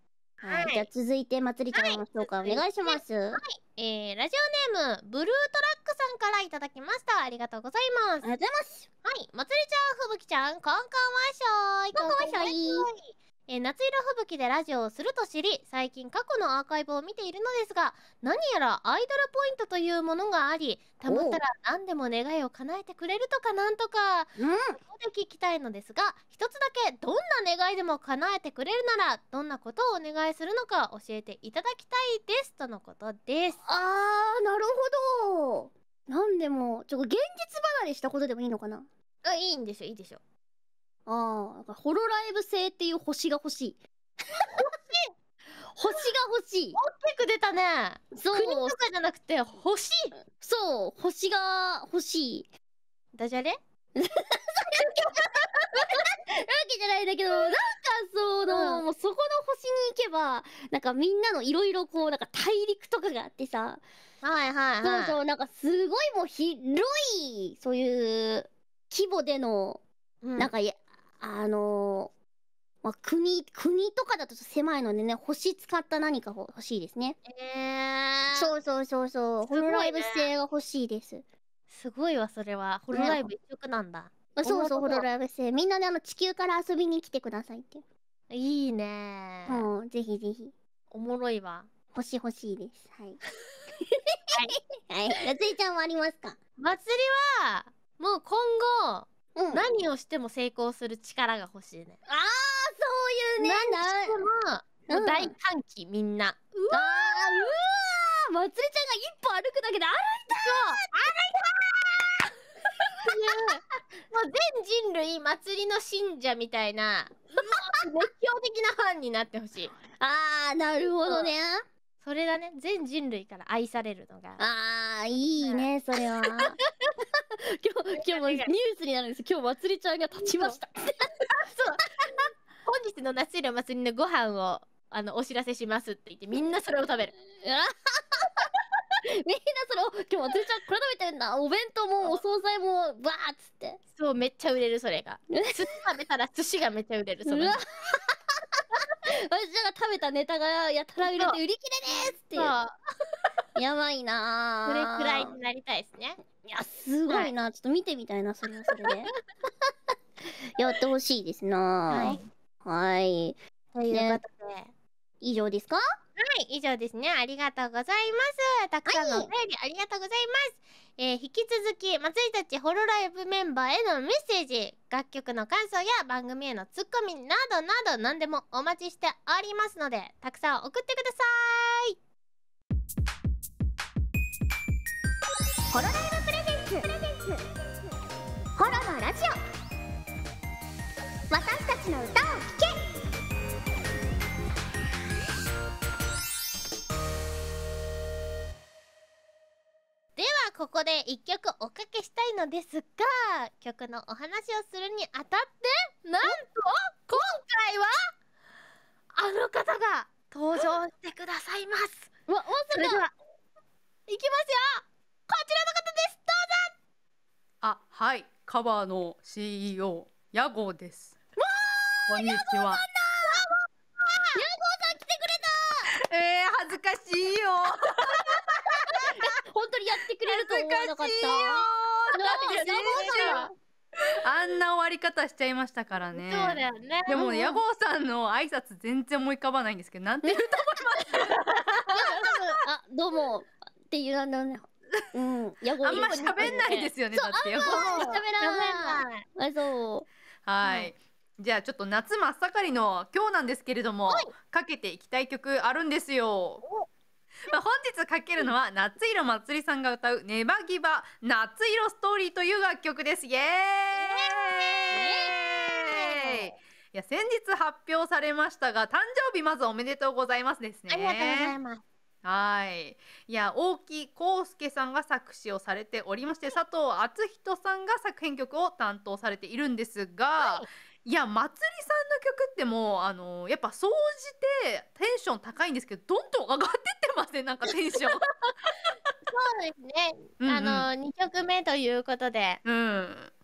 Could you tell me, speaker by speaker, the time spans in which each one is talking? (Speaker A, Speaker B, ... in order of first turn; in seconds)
Speaker A: 0.4-3.4, 8.2-8.9, 11.9-12.9, 21.1-21.4, 24.4-24.8, 33.6-38.9, 41.1-43.8, 45.7-46.8, 48.1-48.8, 50.3-52.5, 54.0-55.2, 55.7-63.8, 64.8-69.8, 70.4-72.1, 72.8-77.2, 78.3-81.2, 82.9-83.2, 84.3-87.8, 89.5-90.5, 91.9-93.2, 94.8-96.4, 99.3-99.6, 102.1-104.2, 104.9-105.3, 106.7-110.8, 112.8-113.1, 120.0-121.6, 124.4-126.6, 127.4-131.1, 137.4-143.8, 145.3-145.6, 147.3-152.5, 153.6-155.3, 156.4-159.1, 160.6-163.4, 163.9-164.2, 165.2-165.8, 168.9-169.3, 185.7-187.4, 188.6-189.4, 191.3-192.8, 212.3-213.0, 221.6-223.4, 224.3-225.9, 229.0-233.5, 237.1-237.6, 240.2-241.3, 241.9-250.1, 264.9-265.3
Speaker B: 0.5-0.9, 1.7-8.3, 9.0-33.6, 39.2-40.2, 44.5-45.0, 46.7-50.1, 53.1-53.6, 54.7-56.0, 58.5-58.8, 64.2-65.2, 70.2-70.5, 77.2-78.5, 79.5-80.3, 81.7-85.0, 88.3-89.7, 90.9-91.7, 94.3-94.6, 96.6-102.0, 103.4-107.5, 110.3-111.2, 113.0-119.7, 122.0-124.4, 126.2-126.9, 128.0-128.5, 130.2-130.6, 131.3-137.1, 144.0-147.6, 151.0-151.4, 152.0-152.7, 154.7-156.2, 161.9-162.2, 163.7-164.7, 166.2-181.9, 200.2-207.9, 209.1-212.1, 212.7-213.1, 214.1-216.7, 223.2-223.5, 224.0-224.4, 228.8-229.1, 232.1-233.5, 236.1-237.1, 241.9-242.6, 245.8-246.9, 247.6-249.2, 250.6-250.9, 263.9-266.5, 270.9-271.8, 280.4-280.7, 289.3-292.6
Speaker C: 217.6-221.2, 222.1-222.8, 226.0-228.6, 230.2-233.4, 234.2-241.9, 245.8-248.2, 250.4-256.6, 257.5-271.5, 272.2-288.5, 290.4-290.9, 292.6-293.3